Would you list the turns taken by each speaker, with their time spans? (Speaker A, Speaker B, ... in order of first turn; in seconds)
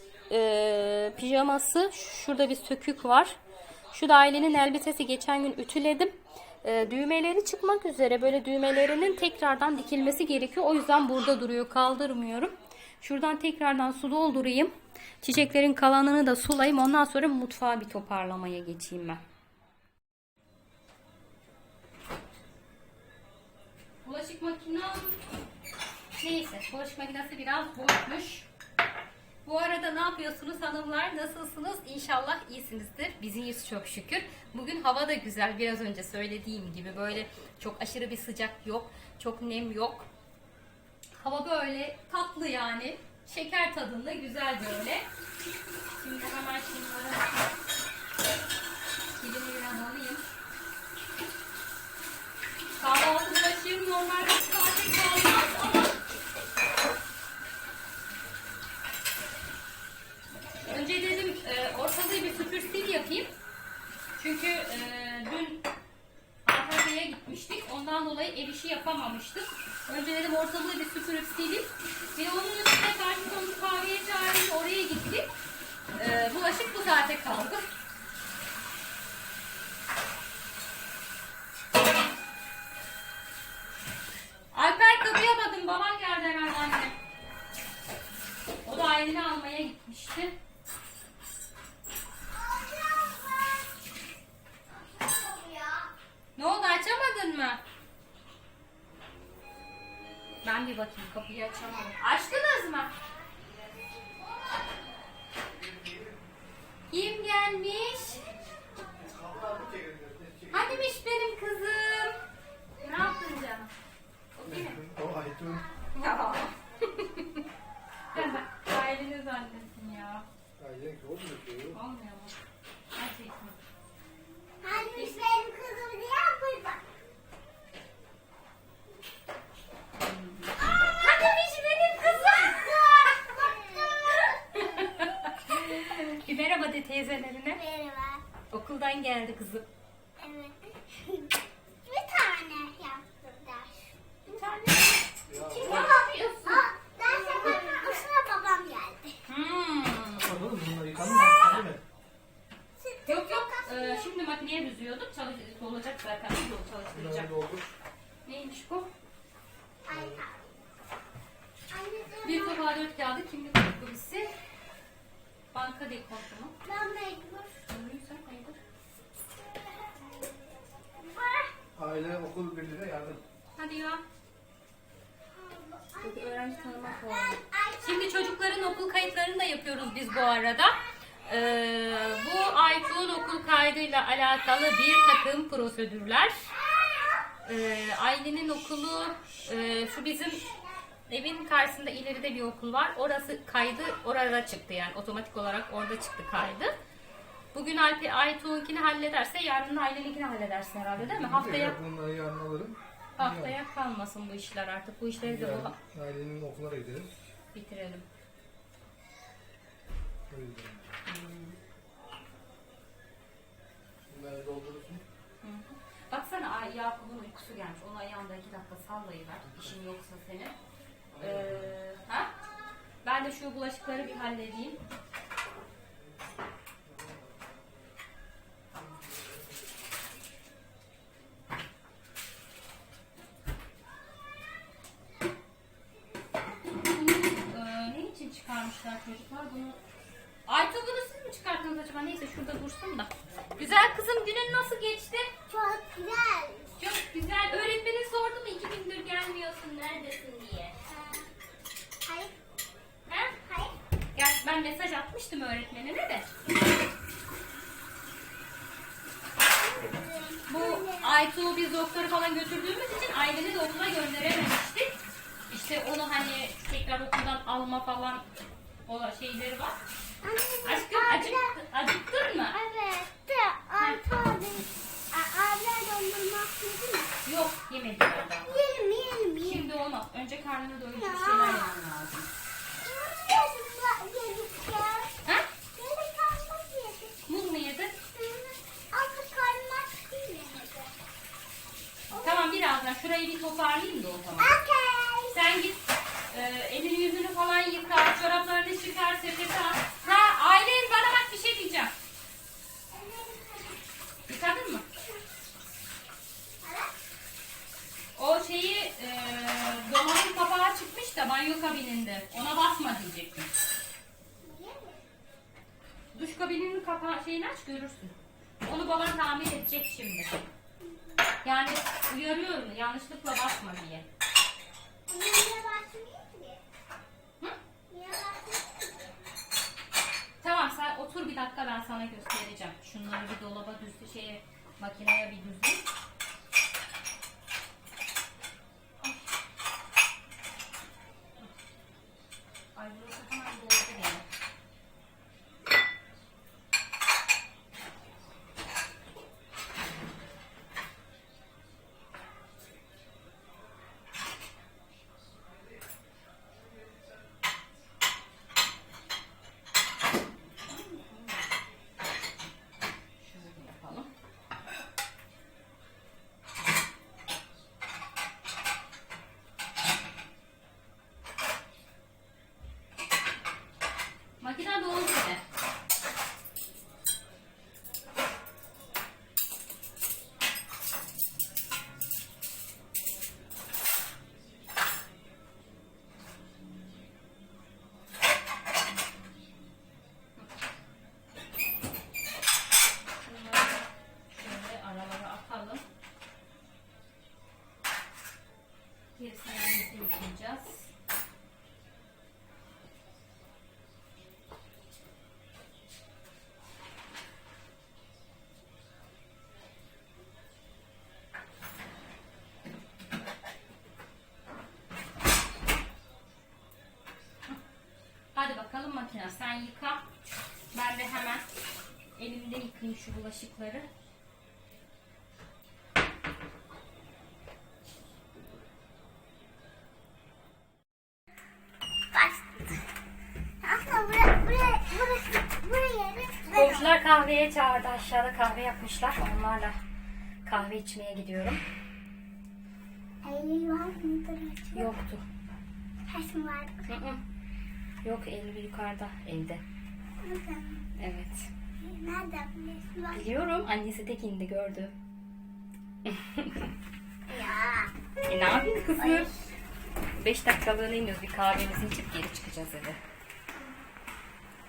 Speaker A: 0.3-3.4, 3.9-19.2, 24.0-25.2, 26.1-28.5, 29.4-40.1, 41.2-45.1, 46.0-47.3, 49.2-50.2, 52.8-56.0, 60.6-63.3, 64.2-65.7, 66.4-75.3, 76.0-77.6, 84.5-87.0, 88.7-90.3, 96.4-97.6, 100.4-102.9, 106.9-108.3, 110.5-112.2, 112.8-113.7, 114.4-114.9, 115.9-117.4, 118.1-120.3, 121.7-122.3, 122.9-123.6, 125.0-125.4, 130.0-133.3, 134.1-137.6, 138.5-139.7, 144.3-147.9, 149.3-151.8, 153.1-157.3, 158.2-158.9, 162.2-164.3, 165.5-166.6, 167.7-168.6, 173.6-174.0, 176.0-180.8, 181.3-186.3, 187.4-190.4, 191.1-196.7, 197.5-201.8, 203.2-205.8, 207.5-208.1, 211.1-211.6, 215.4-220.6, 221.2-222.3, 223.0-224.8, 236.8-239.8, 240.5-245.3, 246.8-250.8, 253.1-253.3, 254.2-256.3, 260.5-265.0, 265.5-268.2, 268.9-269.8, 270.6-272.6, 277.2-278.6, 279.4-282.3, 287.3-287.9, 292.1-294.6, 295.3-301.9, 304.3-304.9, 308.1-313.5, 316.1-320.4, 321.4-324.1, 330.4-335.9, 342.8-344.3, 360.4-361.4, 363.2-364.1, 374.4-375.4, 393.2-395.8, 399.2-400.9, 418.3-420.0, 420.7-421.4, 422.2-423.9, 436.5-439.8, 440.4-441.6, 444.7-445.2, 446.9-447.2, 448.0-449.6, 451.0-451.5, 453.1-454.9, 456.1-456.7, 458.3-459.3, 460.2-463.0
Speaker B: 92.3-93.7, 94.7-95.9, 109.4-109.7, 124.6-126.9, 132.2-134.8, 137.5-138.2, 140.2-149.2, 152.8-154.1, 159.8-160.5, 161.7-162.6, 166.7-167.6, 171.0-171.5, 175.3-178.7, 186.8-187.2, 245.5-246.7, 250.9-251.3, 252.1-252.3, 253.3-253.8, 259.5-261.2, 270.2-271.6, 272.5-277.1, 278.5-279.7, 280.9-281.8, 282.8-285.2, 285.7-287.3, 288.0-290.9, 292.1-292.6, 294.4-295.4, 302.9-303.8, 306.6-306.9, 314.4-315.0, 325.1-326.6, 327.9-329.2, 432.1-432.8, 433.6-436.9, 443.2-444.9, 446.1-446.9, 450.2-450.9, 451.8-453.2, 457.3-457.9, 459.0-459.3
Speaker C: 109.1-110.5, 114.7-115.7, 120.6-121.8, 145.3-145.9, 150.3-151.8, 156.9-157.7, 159.9-160.2, 171.8-173.2, 201.1-203.6, 205.3-207.1, 210.3-210.9, 214.1-215.0, 221.2-221.7, 226.9-227.6